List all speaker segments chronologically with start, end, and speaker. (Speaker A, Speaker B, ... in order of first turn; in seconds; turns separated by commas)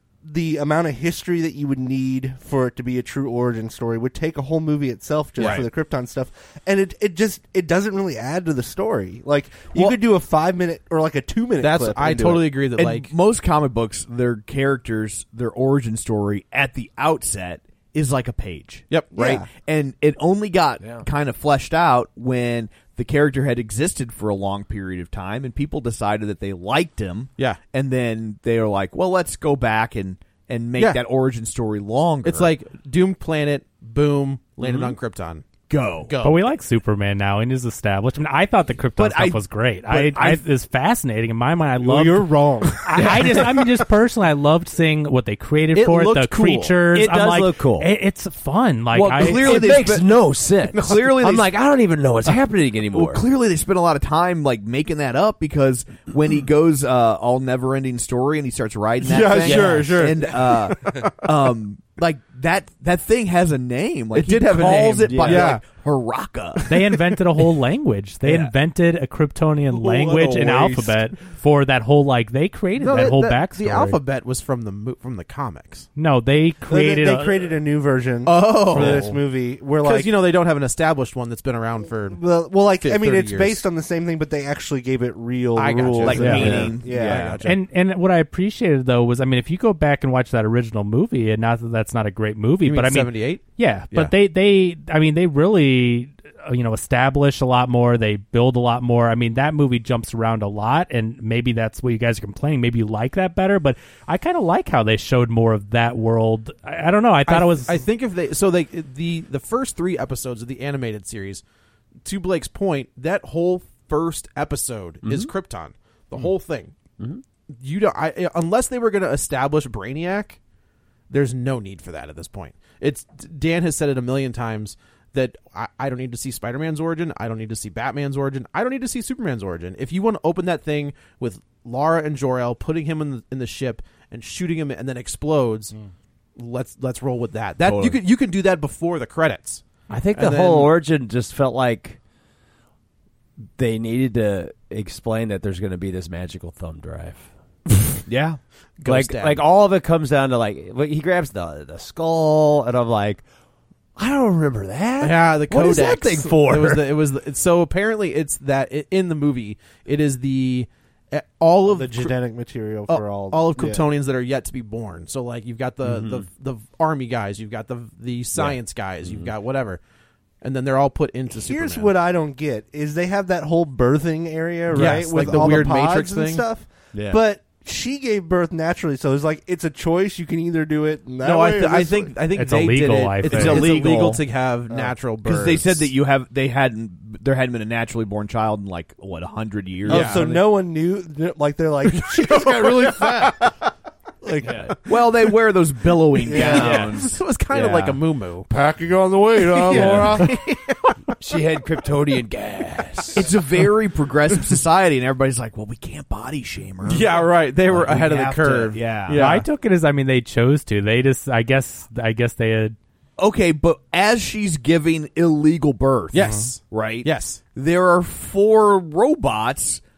Speaker A: 0.2-12.5, Speaker B: 5.4-5.7, Speaker C: 5.4-5.7, Speaker C: 11.6-13.1, Speaker B: 12.8-32.5, Speaker A: 19.1-19.5, Speaker D: 20.8-21.1, Speaker C: 30.8-31.0, Speaker C: 32.2-35.5, Speaker B: 35.7-36.1, Speaker C: 36.0-36.5, Speaker E: 36.2-49.6, Speaker B: 39.0-40.5, Speaker A: 41.8-42.9, Speaker C: 45.7-46.8, Speaker D: 46.9-47.9, Speaker D: 48.9-53.2, Speaker B: 49.1-51.5, Speaker B: 52.9-66.6, Speaker A: 59.1-60.7, Speaker C: 59.1-60.7, Speaker D: 59.4-60.1, Speaker C: 64.1-65.6, Speaker D: 64.4-65.6, Speaker E: 66.7-74.0, Speaker A: 70.0-70.5, Speaker C: 72.8-75.9, Speaker E: 76.0-77.5, Speaker A: 76.7-80.1, Speaker C: 78.2-79.2, Speaker C: 79.8-82.2, Speaker A: 82.1-87.3, Speaker C: 82.8-83.6, Speaker C: 85.5-87.5, Speaker B: 86.0-87.5, Speaker D: 86.4-86.7, Speaker E: 87.4-107.8, Speaker C: 92.6-94.1, Speaker C: 107.3-111.4, Speaker C: 112.0-116.7, Speaker D: 115.0-115.3, Speaker C: 117.5-120.4, Speaker C: 121.1-135.7, Speaker C: 136.4-139.6, Speaker B: 137.7-137.9, Speaker D: 139.9-142.0, Speaker C: 140.1-140.7, Speaker D: 143.6-147.3, Speaker B: 148.1-148.4, Speaker C: 148.8-149.4, Speaker D: 148.8-153.2, Speaker D: 153.9-156.9, Speaker C: 155.0-162.2, Speaker A: 161.7-163.8, Speaker C: 162.9-169.8, Speaker D: 165.8-166.2, Speaker D: 168.3-169.3, Speaker C: 170.4-171.9, Speaker A: 171.3-182.1, Speaker C: 174.7-176.4, Speaker D: 174.7-175.5, Speaker D: 176.9-177.2, Speaker C: 181.2-185.9, Speaker E: 182.3-183.7, Speaker B: 183.2-184.2, Speaker B: 185.2-190.4, Speaker A: 189.8-193.5, Speaker C: 189.9-190.3, Speaker C: 191.8-193.3, Speaker A: 194.2-194.8, Speaker D: 194.4-194.8, Speaker B: 194.8-197.2, Speaker A: 196.2-196.9, Speaker C: 196.3-198.5, Speaker D: 196.6-196.9, Speaker D: 197.5-198.0, Speaker A: 198.5-200.3, Speaker C: 199.4-201.1, Speaker D: 199.7-200.2, Speaker D: 201.2-203.2, Speaker B: 203.1-209.2, Speaker C: 206.8-209.4, Speaker E: 209.2-212.8, Speaker B: 213.2-219.8, Speaker C: 216.1-217.4